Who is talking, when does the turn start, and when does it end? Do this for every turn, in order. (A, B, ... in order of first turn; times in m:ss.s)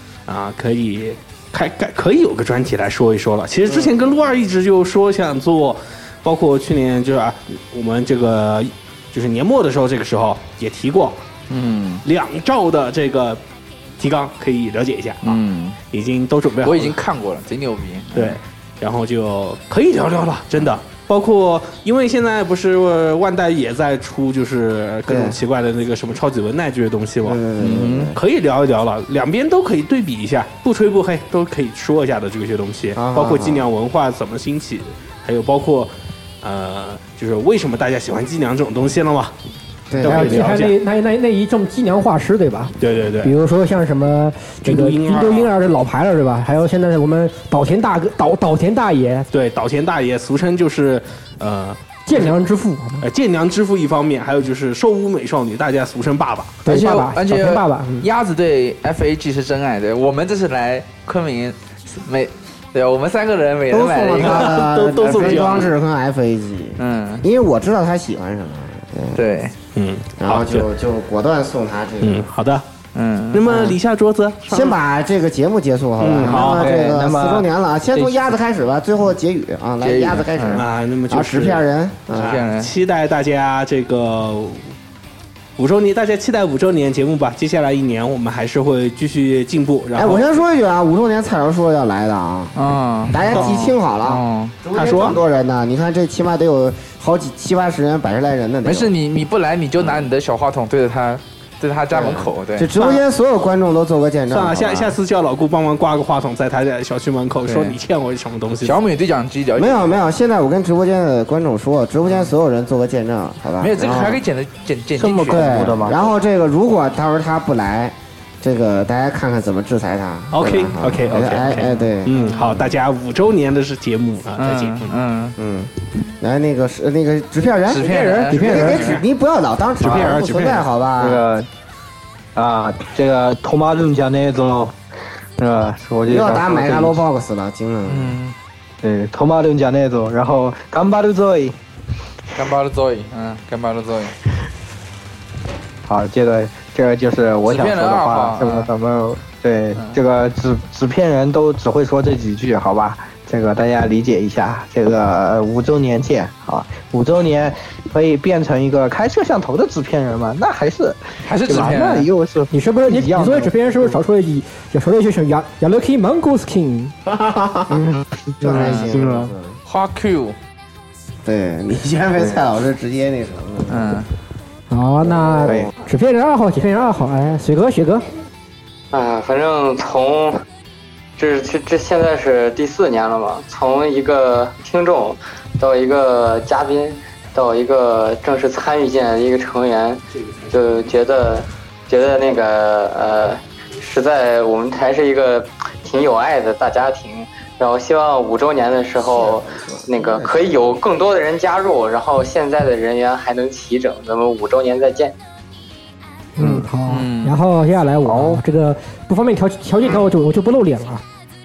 0:00.3-0:11.2 A
0:11.5-0:12.0 B
0:12.0-0:13.4 A
0:14.0-0:17.0 A
0:15.2-0:15.8 B
0:16.6-0:18.4 B
0:18.1-0:27.4 A
0:25.1-0:25.4 C
0:27.2-0:28.2 C
0:27.6-0:28.1 B
0:28.1-0:39.3 A
0:32.9-0:33.7 C
0:39.9-0:40.5 C
0:40.0-0:40.8 A
0:40.0-0:49.3 D
0:42.8-0:43.3 A
0:44.6-0:45.5 A
0:49.3-0:52.3 A
0:52.0-0:53.0 D
0:53.0-0:56.6 A
0:56.6-0:58.1 D
0:56.6-1:04.6 B
1:03.7-1:09.2 C
1:04.2-1:05.7 A
1:05.2-1:05.6 B
1:06.8-1:07.2 B
1:09.1-1:09.5 B
1:09.7-1:10.7 A
1:10.2-1:12.3 C
1:12.0-1:12.6 A
1:12.9-1:13.6 B
1:13.3-1:14.8 A
1:13.4-1:13.8 C
1:14.4-1:22.3 C
1:16.0-1:16.7 A
1:16.4-1:18.2 E
1:19.8-1:20.6 B
1:20.6-1:21.6 A
1:22.1-1:22.7 B
1:22.1-1:24.6 A
1:25.6-1:30.4 A
1:29.9-1:32.5 C
1:32.6-1:34.5 B
1:33.1-1:38.9 C
1:34.7-1:35.2 A
1:38.6-1:42.7 B
1:41.9-1:45.0 C
1:44.3-1:48.8 A
1:47.4-1:47.8 B
1:48.6-1:50.0 B
1:49.6-1:54.2 C
1:53.6-1:55.9 B
1:55.0-1:56.0 E
1:55.3-2:02.2 C
2:00.3-2:04.9 A
2:01.3-2:02.7 B
2:04.4-2:05.4 B
2:05.4-2:11.2 C
2:07.6-2:09.0 B
2:08.5-2:09.0 A
2:09.8-2:10.6 A
2:11.0-2:11.5 E
2:12.4-2:14.7 E
2:15.4-2:17.0 E
2:16.0-2:18.2 C
2:17.9-2:18.3 B
2:18.8-2:21.6 E
2:22.3-2:24.1 B
2:25.8-2:44.0 E
2:27.4-2:28.7 B
2:41.2-2:42.1 B
2:42.5-2:46.9 D
2:47.0-2:47.8 C
2:47.7-2:49.3 E
2:48.4-2:49.6 C
2:49.6-2:50.4 B
2:51.2-2:53.9 C
2:53.7-2:54.1 B
2:54.7-2:58.0 D
2:55.0-2:55.7 C
2:58.9-3:00.4 F
3:01.2-3:25.1 F
3:19.0-3:20.8 C
3:26.4-3:31.0 D
3:26.9-3:27.3 B